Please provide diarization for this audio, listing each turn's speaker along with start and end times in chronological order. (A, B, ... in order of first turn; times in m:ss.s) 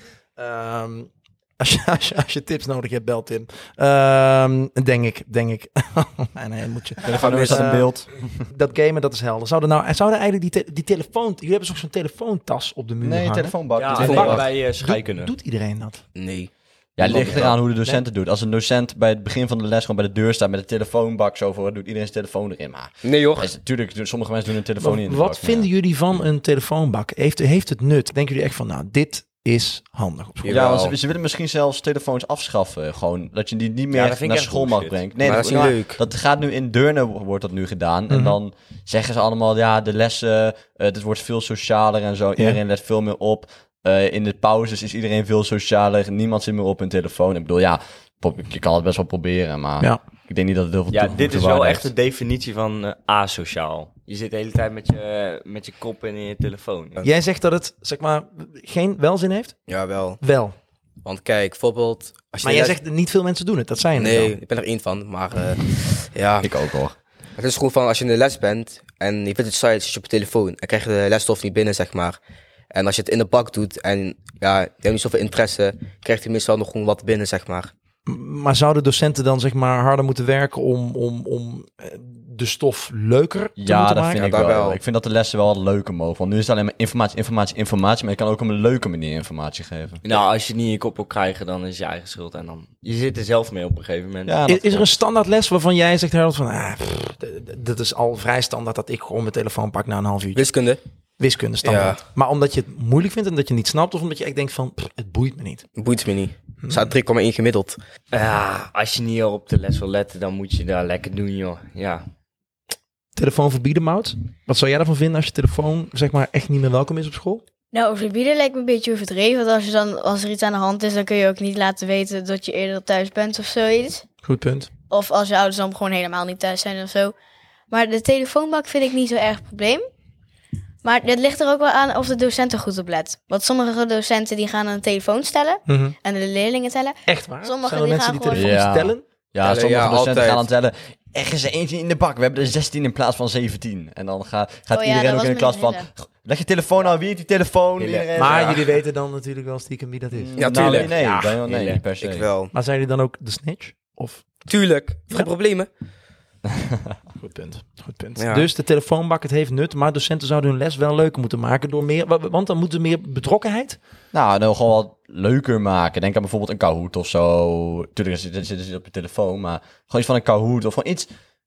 0:00.4-0:16.0 A
0:07.0-0:08.1 B
0:07.2-0:07.6 C
0:13.0-0:14.5 B
0:13.8-0:15.3 D
0:13.9-0:14.4 C
0:16.1-0:17.5 C
0:17.0-0:25.7 B
0:17.1-0:18.0 A
0:17.1-0:17.4 D
0:23.0-0:23.5 C
0:24.8-0:30.6 A
0:30.4-0:30.9 C
0:30.5-0:51.9 B
0:33.9-0:35.6 D
0:35.2-0:36.0 C
0:38.1-0:38.4 A
0:50.9-0:57.0 D
0:57.0-0:59.6 A
0:59.7-1:00.2 C
1:00.2-1:00.5 A
1:01.0-1:02.8 C
1:02.4-1:04.3 A
1:04.0-1:06.5 C
1:06.4-1:06.9 B
1:07.4-1:12.2 C
1:12.7-1:17.7 C
1:18.0-1:24.2 A
1:23.6-1:30.0 B
1:24.2-1:24.8 C
1:30.0-1:34.4 D
1:34.3-1:34.9 B
1:34.5-1:40.5 A
1:40.3-1:40.8 C
1:41.2-1:45.6 A
1:41.6-1:42.0 C
1:45.8-1:47.8 C
1:46.6-1:46.9 A
1:48.1-1:52.0 D
1:53.2-1:57.4 A
1:57.7-2:04.0 E
2:04.2-2:04.7 A
2:04.9-2:07.1 E
2:07.7-2:09.9 E
2:10.8-2:18.5 E
2:15.7-2:15.9 A
2:17.0-2:19.0 A
2:18.3-2:28.6 B
2:19.4-2:20.4 C
2:24.7-2:25.9 E
2:27.8-2:28.6 D
2:28.1-2:30.7 A
2:30.1-2:32.3 B
2:30.3-2:30.9 C
2:30.7-2:31.8 D
2:32.0-2:32.5 C
2:32.5-2:34.2 A
2:34.5-2:35.7 C
2:37.2-2:43.8 A
2:38.2-2:38.5 C
2:44.1-2:51.1 B